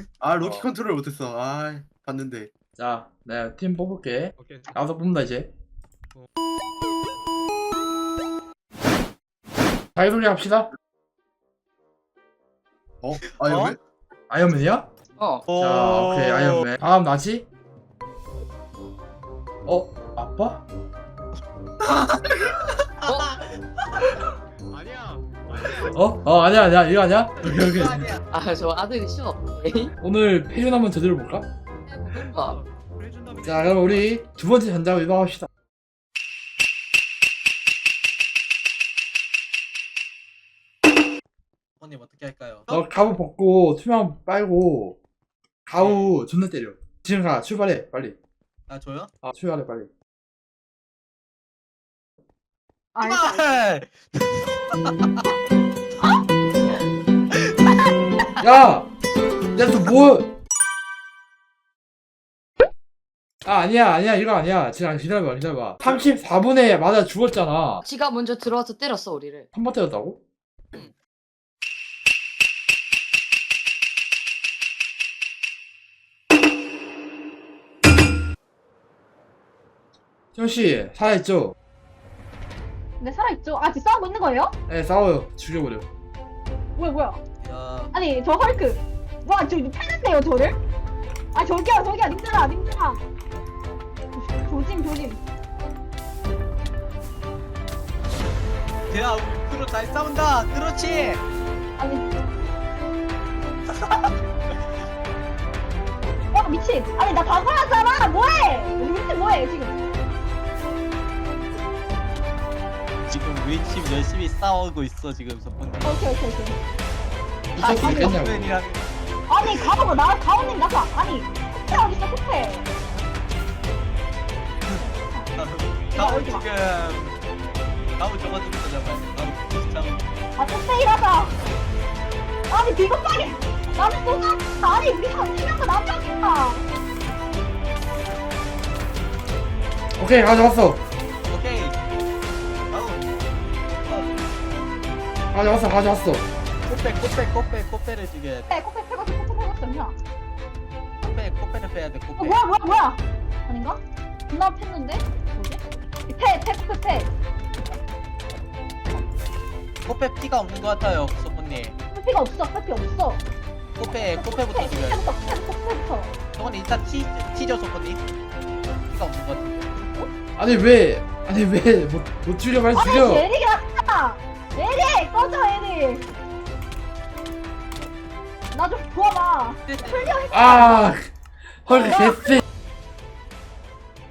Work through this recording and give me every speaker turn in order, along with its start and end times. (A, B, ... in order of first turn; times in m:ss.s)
0:00.2-0:02.5 A
0:00.4-0:00.7 B
0:02.8-0:05.5 B
0:04.4-0:04.7 C
0:10.0-0:10.7 B
0:13.0-0:13.8 A
0:13.4-0:13.8 D
0:14.3-0:14.9 B
0:15.2-0:15.4 E
0:15.5-0:17.5 B
0:19.6-0:20.6 B
0:21.8-0:24.2 D
0:24.7-0:26.0 C
0:25.9-0:28.1 B
0:27.4-0:28.2 D
0:28.3-0:29.9 E
0:30.0-0:31.5 B
0:31.9-0:32.6 E
0:32.1-0:34.2 C
0:33.4-0:35.5 B
0:41.8-0:42.8 D
0:42.7-0:45.0 B
0:45.7-0:48.2 B
0:45.8-0:46.1 D
0:48.7-0:49.1 D
0:49.2-0:49.9 B
0:53.0-0:53.6 F
0:53.0-0:55.2 D
0:57.4-0:57.9 D
0:58.4-0:58.9 B
0:59.5-1:00.3 B
1:03.4-1:07.8 B
1:07.8-1:09.5 E
1:09.5-1:10.2 B
1:20.3-1:21.6 B
1:23.0-1:24.5 F
1:24.7-1:25.9 B
1:26.8-1:27.2 F
1:27.4-1:27.9 D
1:27.9-1:30.6 F
1:31.3-1:33.0 F
1:34.2-1:35.2 F
1:38.9-1:41.2 D
1:41.8-1:42.1 F
1:43.7-1:44.1 D
1:46.3-1:49.8 F
1:53.1-1:56.0 D
1:55.8-1:56.6 F
1:57.5-1:59.6 D
1:57.6-1:58.5 B
1:57.7-1:58.2 F
1:59.3-2:02.7 F
2:04.8-2:05.3 F
2:05.4-2:07.2 D
2:05.9-2:06.5 F
2:08.0-2:10.1 D
2:10.4-2:11.4 F
2:12.5-2:16.6 F
2:20.0-2:20.8 B
2:21.3-2:21.8 D
2:22.7-2:23.2 D
2:23.7-2:24.1 D
2:25.3-2:26.3 B
2:26.7-2:28.5 D
2:28.5-2:30.0 F
2:31.0-2:32.4 D
2:32.2-2:37.1 F
2:39.8-2:41.8 D
2:41.9-2:43.2 F
2:43.8-2:45.0 D
2:44.1-2:46.1 F
2:46.3-2:48.0 D
2:48.9-2:49.9 D
2:50.4-2:53.2 B
2:52.7-2:56.1 F
2:58.5-3:00.8 F
2:59.7-3:00.3 D
3:00.3-3:01.1 B
3:01.6-3:02.4 B
3:01.7-3:02.1 F